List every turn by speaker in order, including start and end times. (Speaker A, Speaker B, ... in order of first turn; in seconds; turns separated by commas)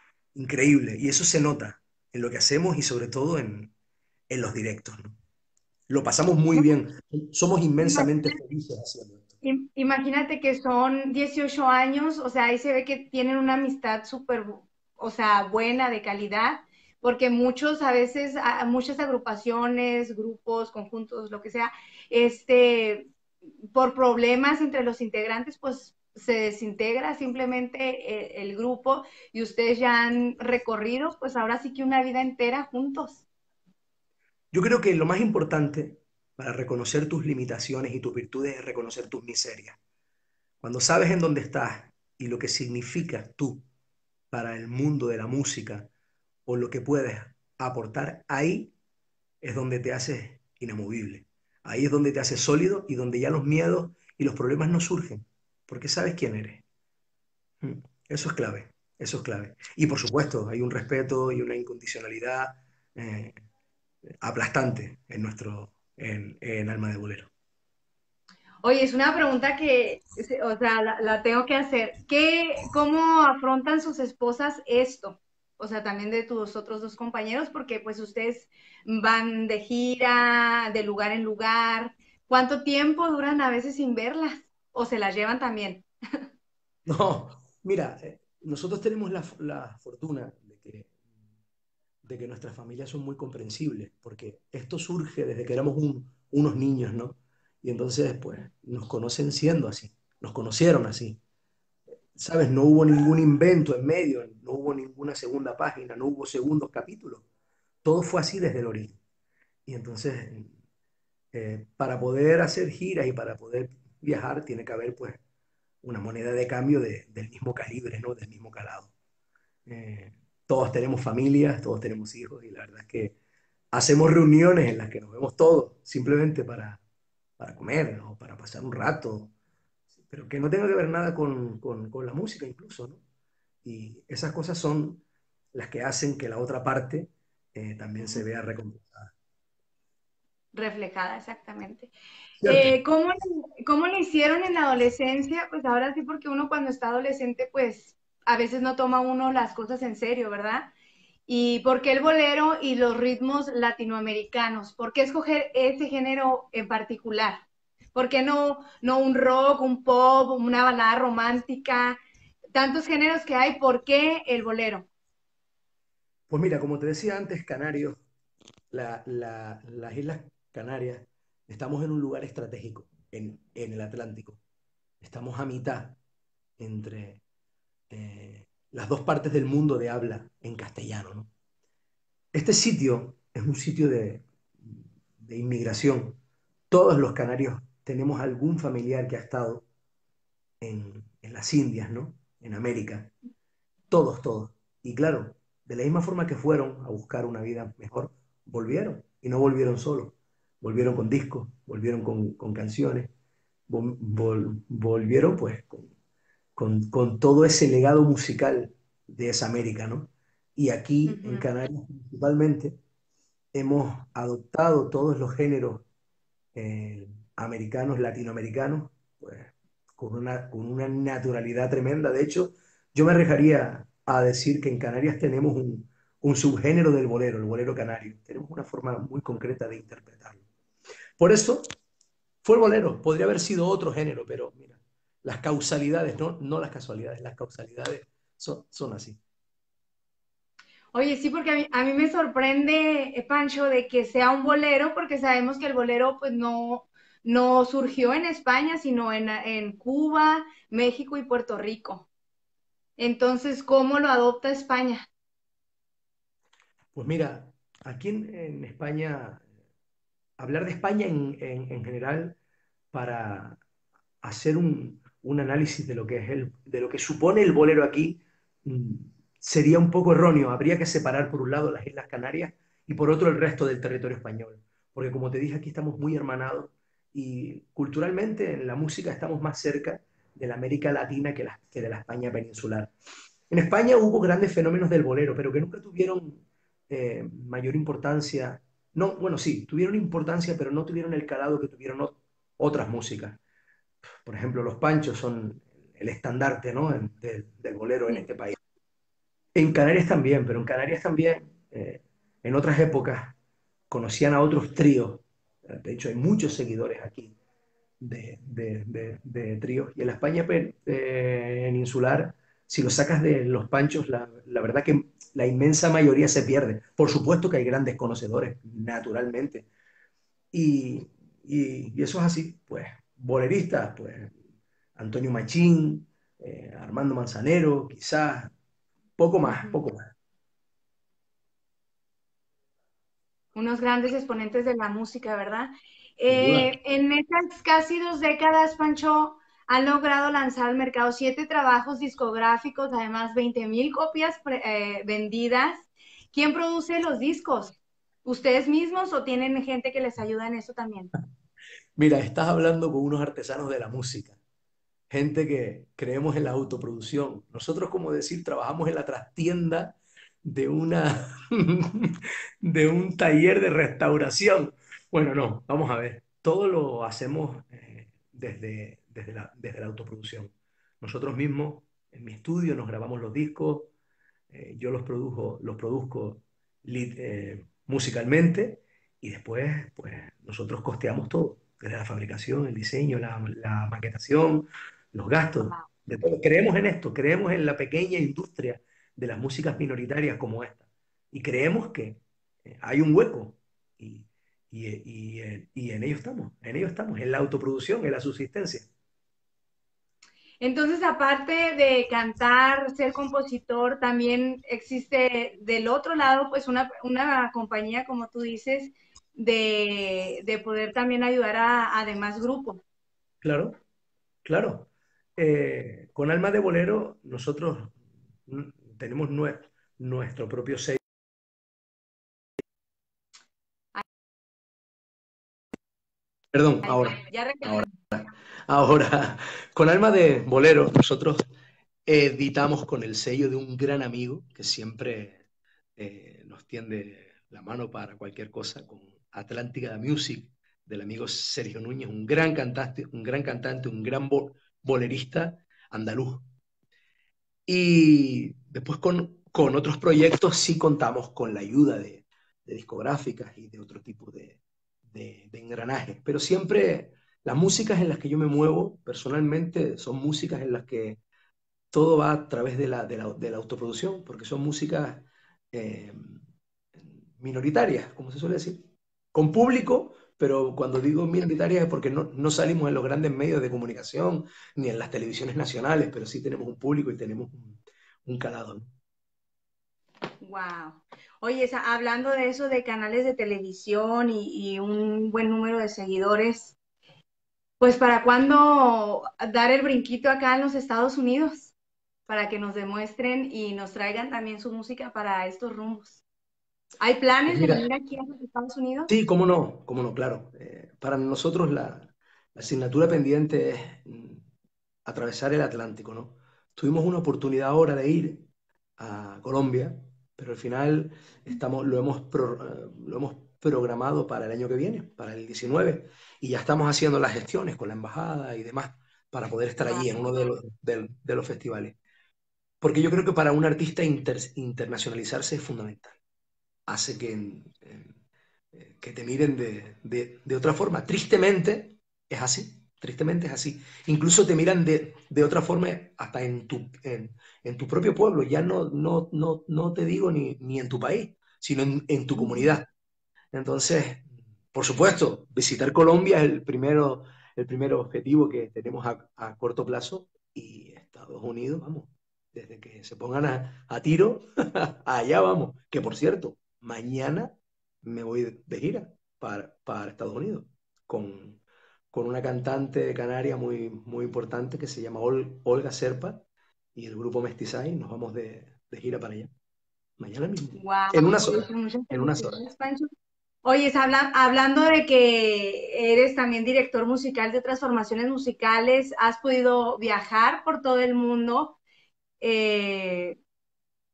Speaker A: 0.3-3.7, Speaker A: 4.3-5.2, Speaker A: 5.9-9.3, Speaker B: 7.8-8.4, Speaker B: 9.4-23.1, Speaker B: 23.7-33.2, Speaker A: 34.5-39.8, Speaker A: 40.6-43.6, Speaker A: 44.3-45.9, Speaker A: 46.5-48.7, Speaker A: 49.4-56.6, Speaker A: 57.6-63.4, Speaker A: 64.2-67.3, Speaker B: 68.6-85.9, Speaker A: 86.9-90.9, Speaker A: 92.0-101.2, Speaker A: 102.2-107.2, Speaker A: 107.8-109.0, Speaker A: 109.7-110.5, Speaker A: 111.3-115.2, Speaker A: 115.8-118.9, Speaker A: 119.7-123.2, Speaker A: 123.7-126.8, Speaker A: 127.4-129.3, Speaker A: 130.1-133.0, Speaker A: 133.6-135.0, Speaker A: 135.5-139.1, Speaker B: 140.5-141.9, Speaker A: 142.4-142.7, Speaker B: 142.4-150.7, Speaker B: 151.3-157.4, Speaker B: 157.9-162.0, Speaker B: 162.6-164.9, Speaker A: 166.3-168.0, Speaker A: 168.7-174.4, Speaker A: 175.0-176.0, Speaker A: 176.6-177.2, Speaker A: 177.9-181.3, Speaker A: 182.3-186.2, Speaker A: 186.7-189.7, Speaker A: 190.6-193.1, Speaker A: 193.9-203.1, Speaker A: 203.7-205.9, Speaker A: 206.6-212.8, Speaker B: 211.1-211.5, Speaker A: 213.5-215.8, Speaker A: 216.6-230.4, Speaker A: 231.2-231.7, Speaker A: 232.4-239.2, Speaker B: 240.9-252.1, Speaker B: 253.0-255.1, Speaker A: 256.9-259.4, Speaker A: 260.4-262.4, Speaker A: 262.9-263.6, Speaker A: 264.2-282.9, Speaker A: 283.5-293.4, Speaker A: 294.2-298.6, Speaker A: 299.5-303.4, Speaker A: 303.9-307.3, Speaker A: 308.0-319.7, Speaker A: 320.5-324.4, Speaker A: 325.0-328.5, Speaker A: 329.2-330.1, Speaker B: 329.4-329.8, Speaker B: 333.6-351.1, Speaker A: 336.3-336.7, Speaker A: 352.0-354.4, Speaker A: 355.1-373.9, Speaker A: 374.5-398.9, Speaker B: 400.6-412.8, Speaker A: 413.4-413.8, Speaker A: 414.4-421.0, Speaker A: 426.5-431.4, Speaker B: 426.8-427.9, Speaker A: 432.1-435.4, Speaker A: 436.0-446.4, Speaker A: 447.7-461.2, Speaker A: 461.9-466.4, Speaker A: 467.0-478.9, Speaker B: 480.4-486.8, Speaker B: 487.8-491.7, Speaker B: 492.3-496.2, Speaker B: 497.0-499.1, Speaker A: 497.5-497.9, Speaker A: 499.1-504.5, Speaker A: 505.1-508.5, Speaker A: 509.0-522.0, Speaker B: 519.8-520.5, Speaker A: 522.8-526.2, Speaker A: 526.9-528.2, Speaker A: 528.7-542.9, Speaker B: 542.4-542.8, Speaker A: 543.5-561.6, Speaker A: 562.1-566.4, Speaker A: 567.0-569.5, Speaker A: 570.2-572.6, Speaker B: 570.8-573.1, Speaker B: 573.6-581.8, Speaker B: 582.4-583.4